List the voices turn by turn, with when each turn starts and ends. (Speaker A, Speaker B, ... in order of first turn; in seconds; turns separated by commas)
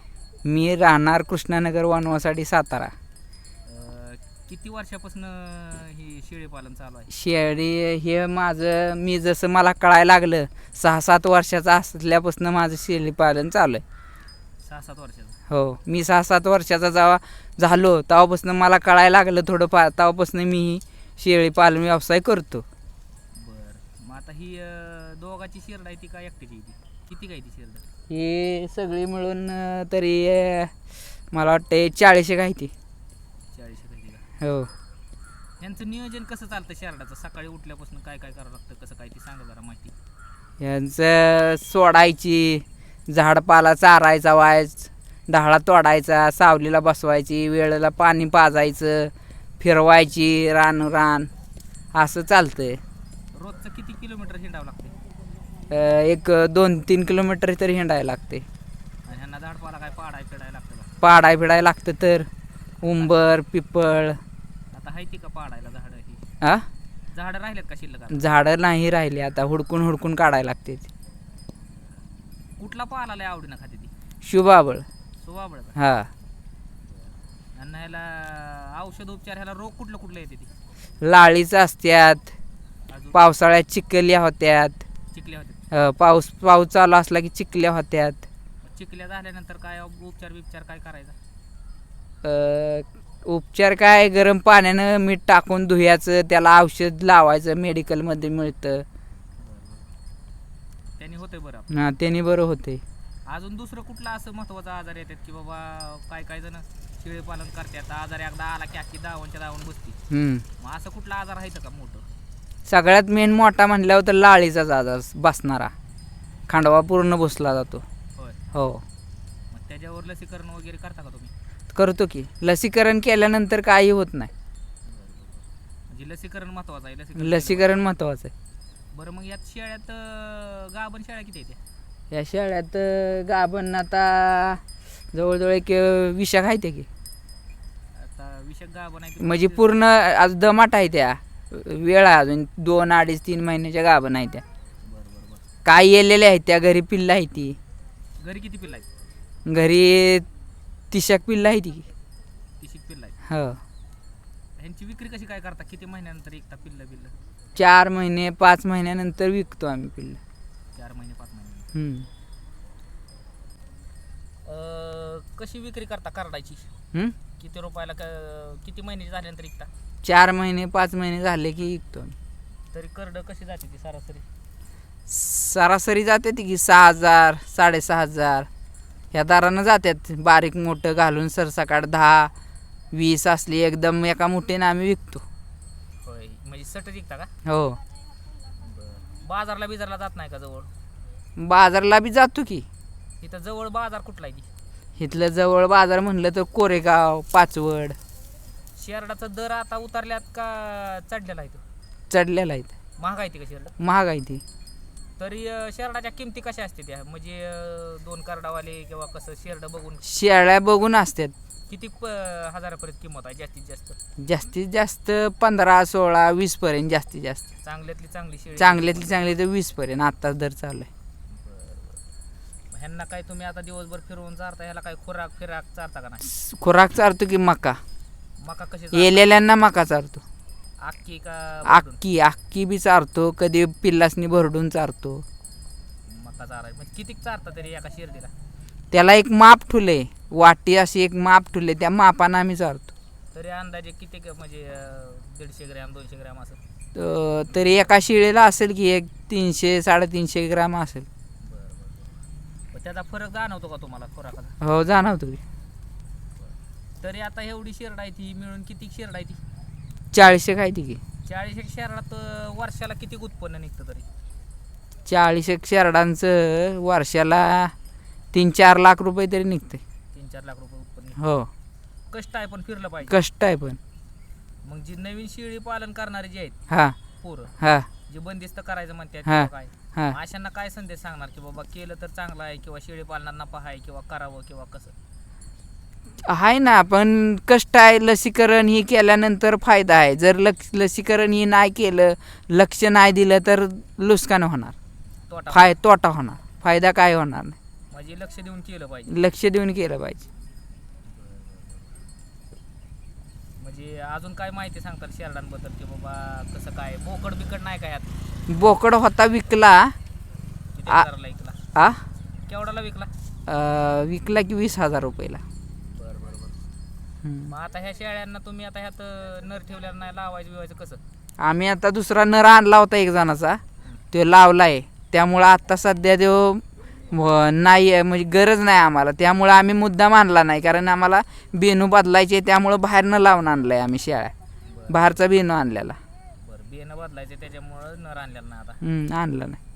Speaker A: 0.4-2.9, Speaker B: 3.6-7.1, Speaker A: 7.1-13.8, Speaker B: 14.6-15.4, Speaker A: 15.5-22.7, Speaker B: 23.3-27.9, Speaker A: 28.1-30.7, Speaker A: 31.3-32.7, Speaker B: 33.5-34.3, Speaker A: 34.4-34.7, Speaker B: 35.6-39.9, Speaker A: 40.6-51.3, Speaker A: 51.9-52.8, Speaker B: 53.3-55.0, Speaker A: 55.7-58.5, Speaker B: 59.1-60.9, Speaker A: 61.0-62.3, Speaker B: 62.8-63.2, Speaker A: 62.8-64.2, Speaker B: 64.7-66.2, Speaker A: 66.4-66.7, Speaker B: 67.1-68.3, Speaker A: 68.1-70.9, Speaker B: 72.6-73.9, Speaker A: 74.2-74.9, Speaker B: 75.2-75.8, Speaker A: 75.8-76.1, Speaker B: 76.9-80.5, Speaker A: 81.0-82.3, Speaker B: 82.9-83.3, Speaker A: 83.1-84.8, Speaker B: 85.1-85.6, Speaker A: 85.7-88.3, Speaker B: 88.6-91.2, Speaker A: 92.2-98.9, Speaker B: 99.4-99.9, Speaker B: 101.0-101.8, Speaker A: 101.7-102.8, Speaker B: 103.3-110.0, Speaker A: 110.1-110.5, Speaker B: 110.6-112.1, Speaker A: 112.7-115.7, Speaker A: 116.5-117.8, Speaker B: 118.2-118.4, Speaker A: 118.5-118.8, Speaker B: 119.5-121.3, Speaker A: 121.7-124.3, Speaker B: 124.8-127.9, Speaker A: 127.2-128.3, Speaker B: 128.9-131.6, Speaker A: 132.1-136.9, Speaker B: 137.9-139.7, Speaker A: 139.2-144.4, Speaker B: 144.8-145.5, Speaker A: 145.7-147.6, Speaker B: 148.2-148.9, Speaker A: 149.5-150.3, Speaker A: 150.9-151.9, Speaker B: 152.6-153.2, Speaker A: 153.3-153.6, Speaker B: 154.6-157.2, Speaker A: 157.6-160.2, Speaker B: 160.7-161.7, Speaker A: 161.7-162.1, Speaker B: 164.4-166.7, Speaker B: 167.4-169.7, Speaker A: 170.0-172.2, Speaker B: 172.7-174.3, Speaker A: 175.1-178.5, Speaker A: 179.1-182.3, Speaker A: 182.9-185.2, Speaker B: 186.0-187.3, Speaker A: 187.4-187.8, Speaker B: 188.6-190.7, Speaker A: 191.4-192.7, Speaker B: 193.2-194.5, Speaker A: 195.0-198.0, Speaker B: 198.8-201.6, Speaker A: 202.1-202.7, Speaker B: 203.0-203.8, Speaker A: 203.8-204.4, Speaker B: 205.2-210.1, Speaker A: 210.0-211.3, Speaker B: 211.7-214.0, Speaker A: 214.2-217.4, Speaker B: 217.6-219.2, Speaker A: 218.6-220.9, Speaker B: 221.3-222.0, Speaker B: 222.7-226.3, Speaker A: 226.2-227.8, Speaker B: 228.4-229.3, Speaker A: 228.9-230.2, Speaker B: 230.8-232.0, Speaker A: 231.7-235.2, Speaker B: 236.1-238.3, Speaker A: 238.9-242.9, Speaker B: 243.3-246.6, Speaker A: 246.9-251.1, Speaker B: 251.4-252.2, Speaker B: 252.7-254.6, Speaker A: 254.6-255.4, Speaker B: 256.4-259.4, Speaker A: 260.1-261.0, Speaker B: 261.2-264.1, Speaker A: 265.1-267.7, Speaker A: 268.3-269.8, Speaker B: 270.1-271.2, Speaker A: 271.2-271.5, Speaker B: 272.1-273.2, Speaker A: 273.1-273.8, Speaker B: 274.6-276.6, Speaker A: 276.7-277.0, Speaker B: 277.2-277.6, Speaker A: 277.6-277.9, Speaker B: 278.1-284.9, Speaker A: 279.3-280.2, Speaker A: 286.2-294.8, Speaker B: 295.3-295.7, Speaker A: 295.5-297.6, Speaker B: 297.9-299.2, Speaker A: 299.1-300.3, Speaker B: 301.1-302.0, Speaker B: 303.6-308.1, Speaker A: 308.5-309.9, Speaker B: 310.7-311.6, Speaker A: 311.8-312.0, Speaker B: 312.5-313.1, Speaker A: 313.5-315.4, Speaker B: 315.9-316.6, Speaker A: 317.2-317.5, Speaker B: 317.5-321.0, Speaker A: 321.4-323.6, Speaker A: 324.1-334.3, Speaker B: 334.7-335.1, Speaker A: 334.9-336.0, Speaker B: 336.4-338.8, Speaker A: 338.8-339.6